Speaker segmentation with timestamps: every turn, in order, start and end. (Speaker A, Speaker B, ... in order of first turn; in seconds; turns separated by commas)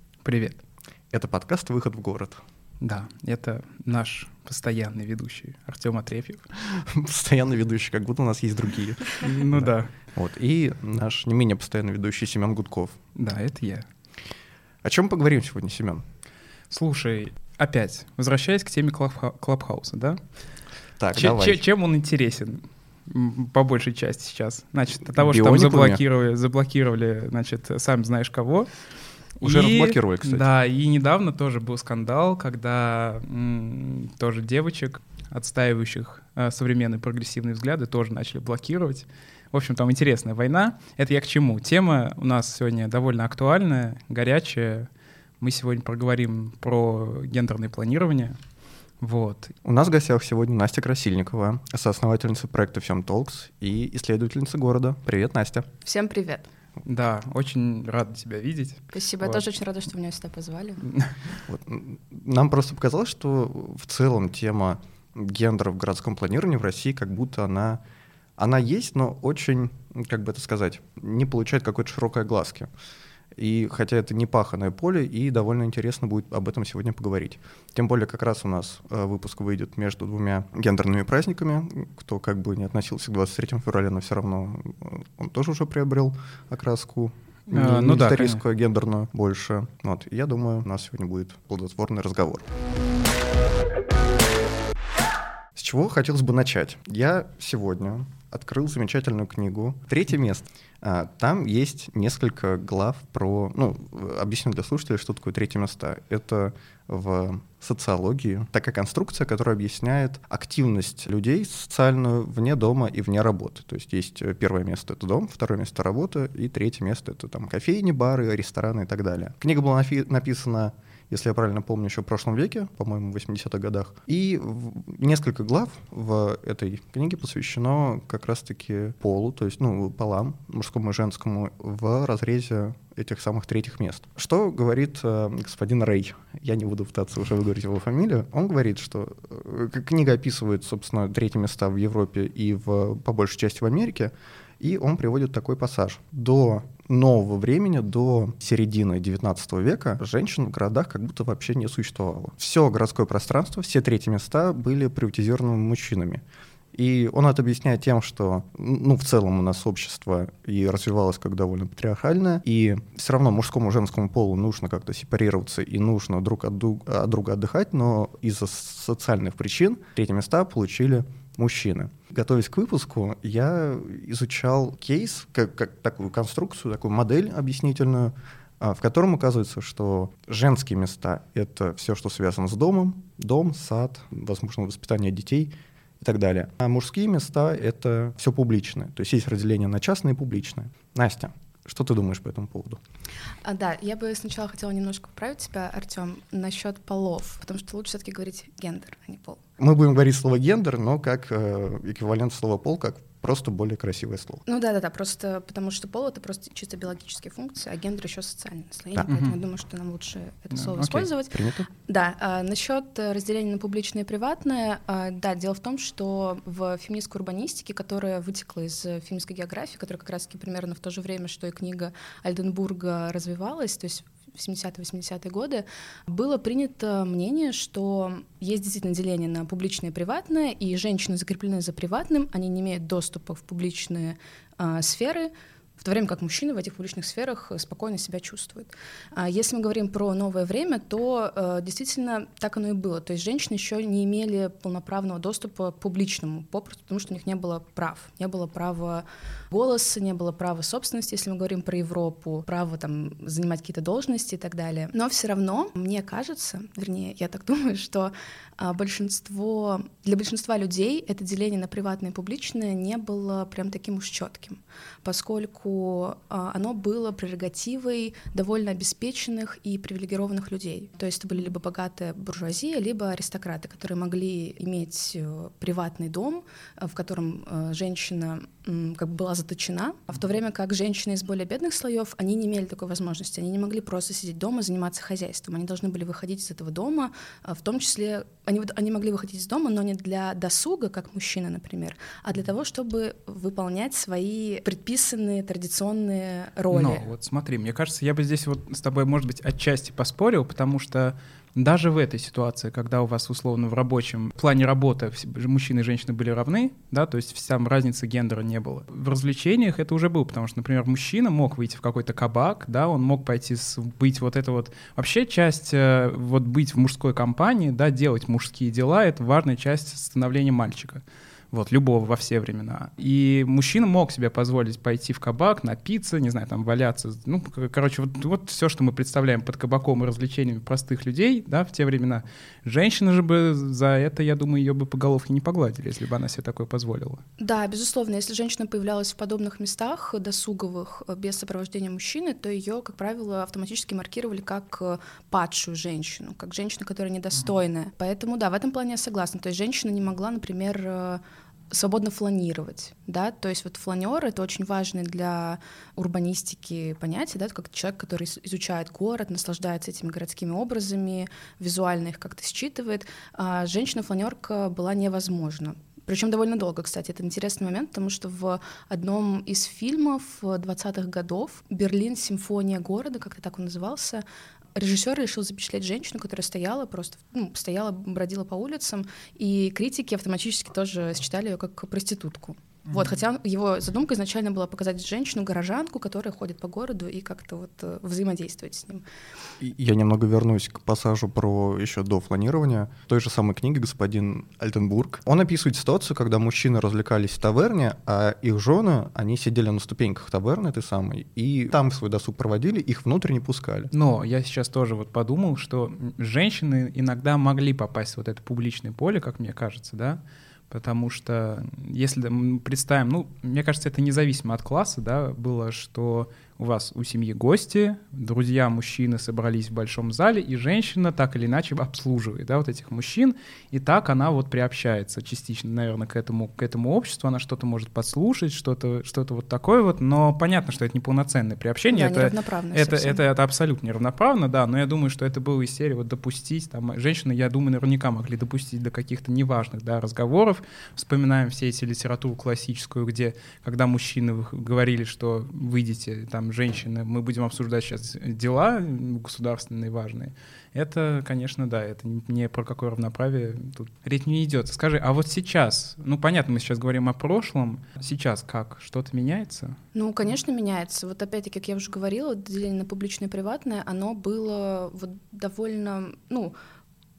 Speaker A: 0.2-0.6, Speaker B: 1.1-2.4, Speaker A: 2.8-6.5, Speaker B: 6.7-13.0, Speaker A: 9.2-9.9, Speaker A: 13.2-13.9, Speaker B: 14.8-16.0, Speaker A: 16.7-20.2, Speaker B: 21.0-21.6, Speaker A: 21.1-28.7, Speaker B: 25.1-26.0, Speaker A: 29.4-44.9, Speaker B: 29.4-30.5, Speaker A: 45.4-48.4, Speaker A: 49.0-49.5, Speaker B: 49.6-55.7, Speaker C: 55.9-56.5, Speaker A: 56.8-59.4, Speaker C: 58.9-60.9, Speaker B: 61.5-67.8, Speaker B: 68.4-72.7, Speaker B: 73.3-92.5, Speaker A: 87.5-88.4, Speaker B: 95.5-156.2, Speaker B: 156.7-192.8, Speaker C: 193.4-199.4, Speaker B: 199.6-204.4, Speaker C: 204.5-297.0, Speaker A: 209.1-209.4, Speaker A: 210.6-211.1, Speaker B: 211.3-211.7, Speaker A: 296.7-337.2, Speaker C: 337.4-374.2, Speaker C: 374.8-389.0, Speaker B: 389.6-403.9, Speaker A: 403.9-459.8, Speaker C: 431.9-433.2, Speaker C: 459.9-466.6